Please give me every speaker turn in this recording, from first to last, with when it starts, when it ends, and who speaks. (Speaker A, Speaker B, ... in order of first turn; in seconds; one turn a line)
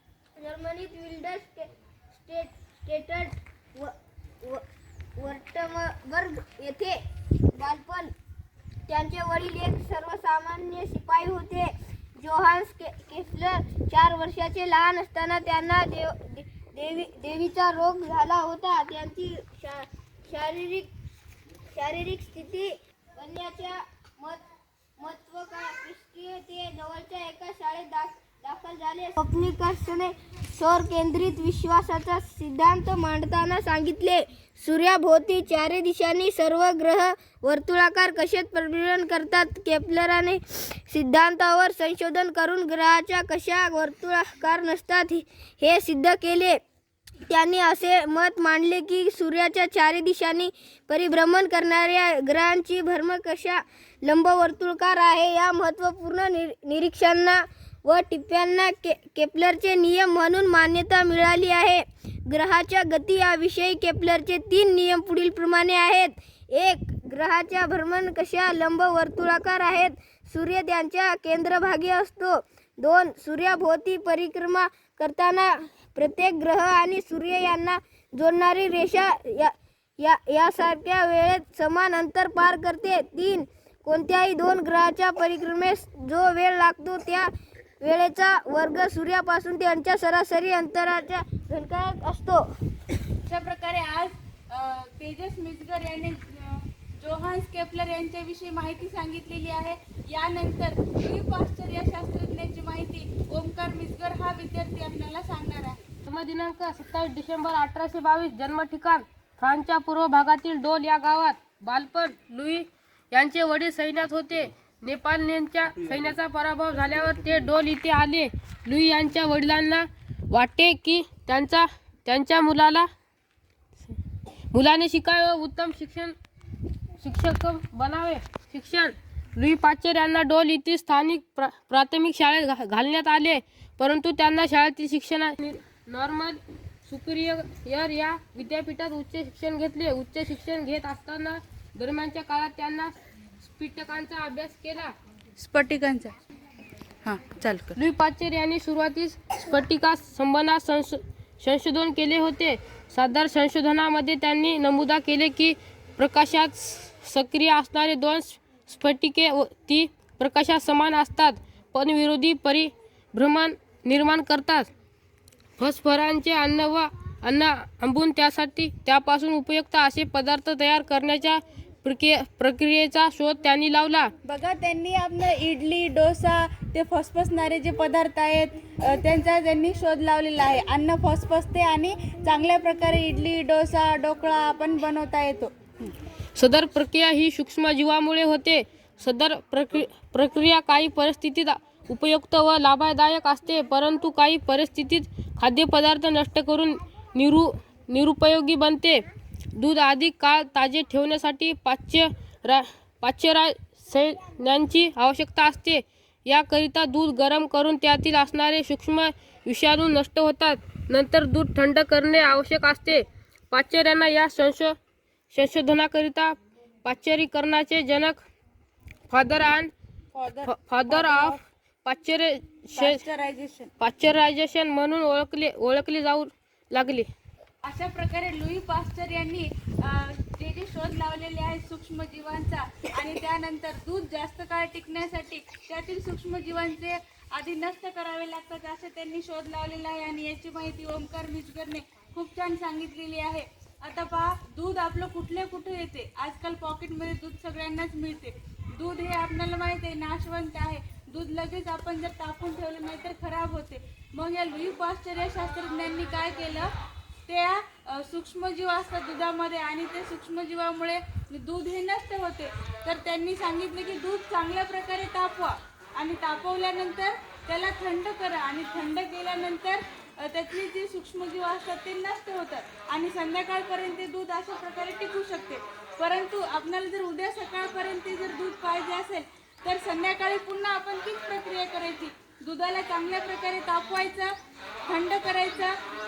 Speaker A: 0.4-4.6
Speaker A: 5.2-7.0
Speaker A: 7.5-8.1
Speaker A: 8.9-20.9
Speaker A: 21.7-24.4
Speaker A: 25.0-46.6
Speaker A: 47.2-92.5
Speaker B: 93.2-105.8
Speaker C: 106.1-122.9
Speaker C: 124.5-126.2
Speaker C: 127.0-144.9
Speaker B: 145.4-146.2
Speaker B: 147.0-147.8
Speaker C: 147.8-164.7
Speaker C: 165.6-174.1
Speaker B: 174.2-185.5
Speaker C: 186.4-199.0
Speaker C: 199.6-214.8
Speaker C: 215.3-218.2
Speaker C: 219.1-219.7
Speaker B: 220.2-221.4
Speaker C: 220.5-223.0
Speaker B: 222.7-223.7
Speaker C: 223.8-227.1
Speaker B: 227.6-256.7
Speaker B: 257.3-284.3
Speaker B: 284.9-285.8